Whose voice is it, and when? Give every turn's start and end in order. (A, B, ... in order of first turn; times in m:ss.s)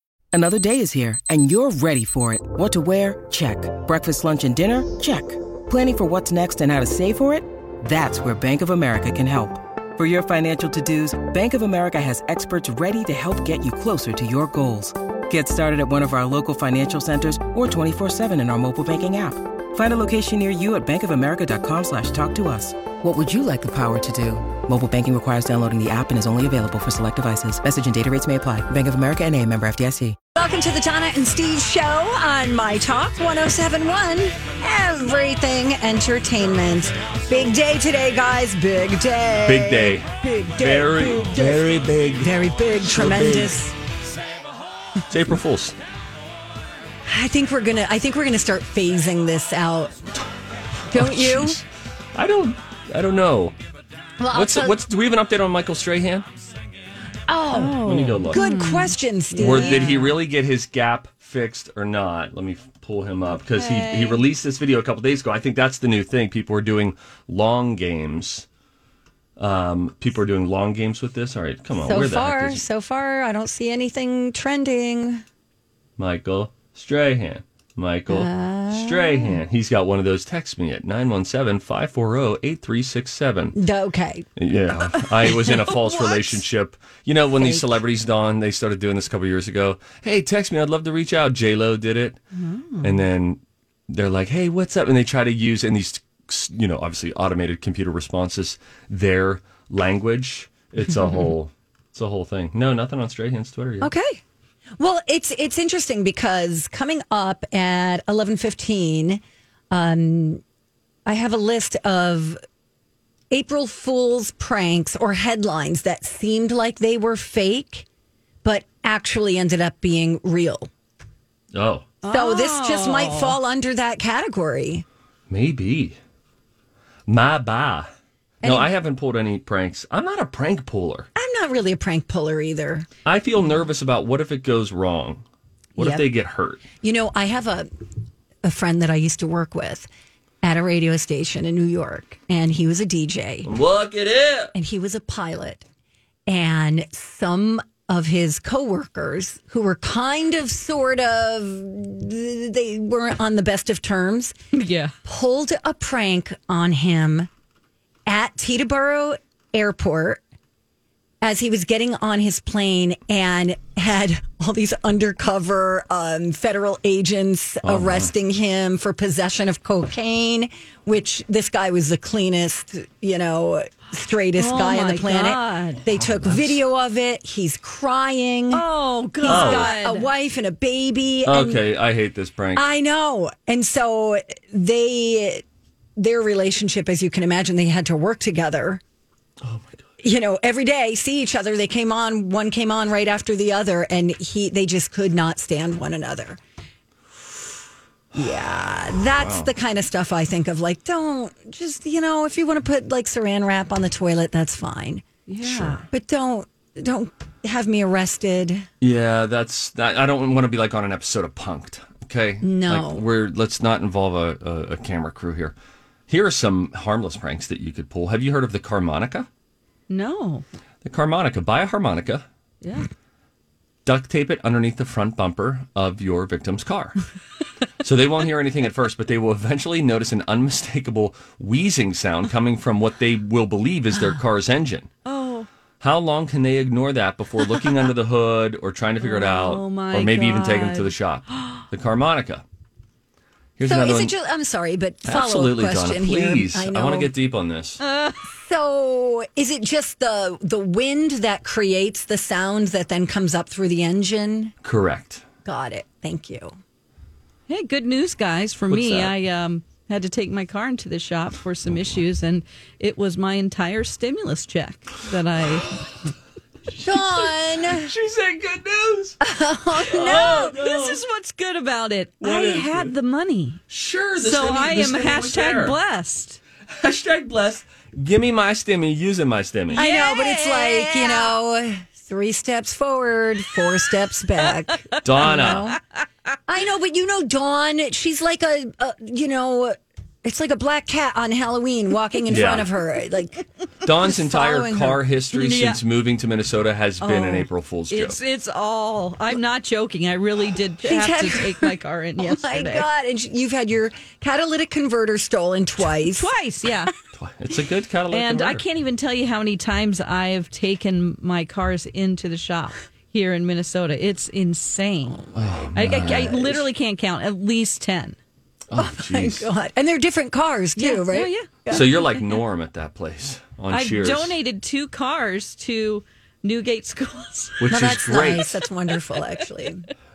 0:00.3-0:30.2 A
0:30.4-0:41.6 B
0:39.4-0:40.0 C
0:40.6-0:42.3 C
0:42.2-0:43.7 B
0:42.8-0:43.6 C
0:45.1-0:45.8 C
0:47.0-0:49.9 B
0:50.9-0:51.6 B
0:50.9-0:51.6 C
0:52.1-0:53.6 C
0:54.2-0:54.8 B
0:54.3-0:56.3 C
0:57.3-1:00.1 B
0:57.5-1:00.0 D
0:57.8-0:58.4 C
0:59.4-1:08.4 C
1:03.5-1:04.2 B
1:09.4-1:12.6 C
1:11.8-1:15.2 B
1:16.0-1:23.6 C
1:18.1-1:19.4 B
1:23.6-1:24.2 B
1:24.4-1:32.2 C
1:25.5-1:26.4 B
1:27.4-1:27.8 B
1:32.3-1:33.0 D
1:32.8-1:43.9 C
1:43.8-1:44.2 B
1:44.8-1:50.4 B
1:51.0-1:52.4 B
1:53.3-1:57.8 B
1:58.4-2:00.7 B
2:01.5-2:01.9 C
2:02.0-2:03.4 D
2:02.1-2:04.8 B
2:05.3-2:06.0 C
2:07.1-2:07.9 C
2:08.4-2:08.7 B
2:08.4-2:11.1 C
2:11.2-2:12.9 B
2:13.0-2:15.2 C
2:15.8-2:16.0 B
2:15.8-2:16.6 C
2:16.8-2:17.7 B
2:18.4-2:19.9 B
2:20.4-2:23.5 B
2:23.4-2:24.5 C
2:24.5-2:25.6 B
2:26.3-2:34.4 B
2:34.5-2:34.9 D
2:35.0-2:37.3 B
2:38.1-2:40.2 B
2:41.2-2:58.6 B
2:47.6-2:48.1 C
2:54.4-2:55.8 D
2:56.0-2:56.6 C
2:58.5-3:00.1 D
2:59.2-3:01.6 B
2:59.3-2:59.7 C
3:01.2-3:02.6 C
3:02.6-3:05.4 B
3:06.0-3:08.8 B
3:09.4-3:09.8 C
3:10.0-3:16.4 B
3:18.1-3:25.0 B
3:18.9-3:19.5 C
3:25.3-3:25.9 D
3:25.4-3:25.8 C
3:25.9-3:28.6 B
3:28.8-3:35.6 C
3:32.4-3:33.0 B
3:36.1-3:39.3 C
3:39.9-3:40.4 D
3:40.8-3:42.2 C
3:42.6-3:42.9 D
3:43.8-3:47.0 C
3:47.8-3:54.9 C
3:55.0-3:55.5 D
3:55.8-4:02.4 C
3:59.0-4:01.6 D
4:03.6-4:04.1 C
4:03.6-4:07.1 B
4:05.0-4:07.8 C
4:07.8-4:08.2 D
4:08.3-4:14.5 B
4:14.6-4:15.2 C
4:15.4-4:16.6 B
4:17.5-4:25.8 D
4:18.7-4:19.1 C
4:26.8-4:27.9 B
4:27.7-4:29.2 C
4:29.2-4:30.2 B
4:29.8-4:31.0 C
4:30.1-4:33.6 D
4:32.2-4:32.9 C
4:33.7-4:35.8 C
4:34.2-4:36.4 D
4:36.7-4:39.8 C
4:39.7-4:41.3 D
4:39.7-4:45.8 B
4:44.9-4:45.7 D
4:45.0-4:45.7 C
4:46.5-4:55.0 B
4:52.3-4:52.7 C
4:53.8-4:58.2 C
4:55.3-4:55.8 D
4:57.0-5:02.9 D
5:00.8-5:06.3 B
5:06.0-5:06.9 D
5:07.1-5:08.6 C
5:08.1-5:18.2 D
5:15.3-5:16.6 C
5:18.7-5:19.5 C
5:18.8-5:21.8 B
5:20.8-5:21.8 D
5:21.7-5:24.3 C
5:23.7-5:27.7 D
5:27.6-5:28.5 C
5:27.7-5:29.9 B